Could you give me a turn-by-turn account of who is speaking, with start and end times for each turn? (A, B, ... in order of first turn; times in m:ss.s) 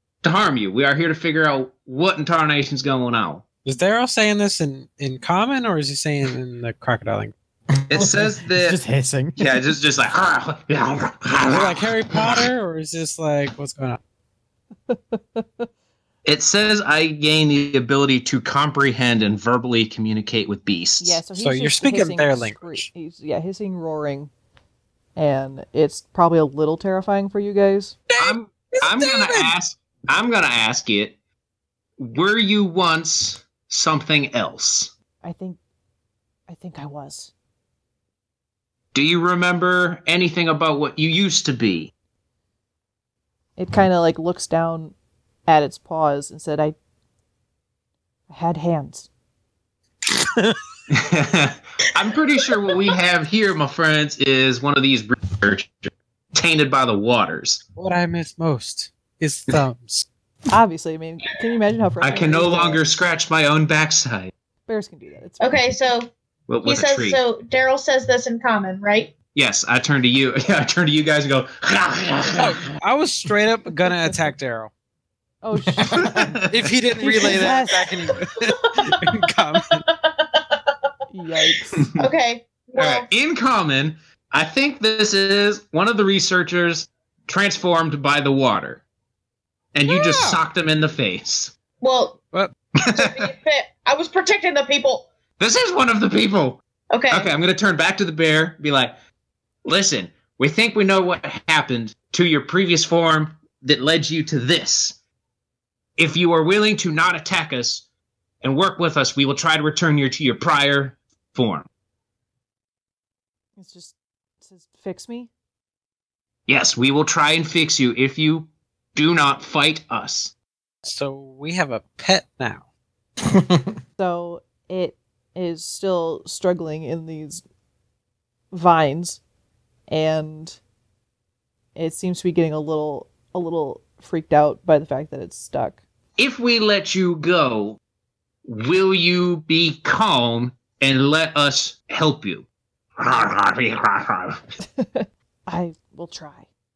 0:00.2-0:03.4 A
0:03.6-0:07.3 B
0:07.9-0:08.8 A
0:07.9-0:09.5 C
0:09.4-0:12.5 A
0:11.5-0:14.0 B
0:14.9-0:15.7 D
0:16.2-0:21.2 A
0:21.0-0:24.3 D
0:21.4-0:22.9 B
0:25.2-0:28.0 D
0:28.1-0:29.5 B
0:28.2-0:31.2 A
0:32.0-0:34.9 A
0:35.2-0:35.6 D
0:36.5-0:37.3 D
0:38.9-0:41.9 A
0:43.6-0:45.0 D
0:45.5-0:46.8 D
0:48.3-0:49.1 D
0:50.2-0:50.6 B
0:50.9-0:57.6 A
0:57.8-1:00.1 B
1:00.5-1:02.9 D
1:02.0-1:04.3 A
1:04.7-1:05.8 D
1:05.4-1:06.1 E
1:06.5-1:07.2 A
1:06.6-1:09.1 E
1:09.4-1:12.7 A
1:12.4-1:14.7 B
1:15.4-1:16.2 D
1:15.9-1:16.3 C
1:16.0-1:16.7 A
1:16.5-1:19.8 B
1:17.0-1:18.0 D
1:18.4-1:19.1 E
1:19.9-1:20.6 E
1:21.1-1:21.9 D
1:22.0-1:23.1 E
1:22.8-1:28.8 A
1:29.7-1:31.5 A
1:29.9-1:30.4 B
1:31.8-1:32.2 E
1:32.8-1:35.1 E
1:32.8-1:33.1 A
1:35.4-1:39.0 A
1:36.9-1:37.3 E
1:39.6-1:45.0 A
1:46.0-1:47.8 A
1:48.4-1:51.7 A
1:53.6-1:55.3 D
1:56.5-2:00.3 A
2:00.8-2:02.6 B
2:03.3-2:03.7 C
2:04.0-2:07.4 D
2:08.5-2:09.2 D
2:09.9-2:10.6 D
2:11.8-2:15.8 D
2:16.2-2:17.8 A
2:18.4-2:22.5 A
2:23.0-2:24.4 A
2:24.8-2:26.5 D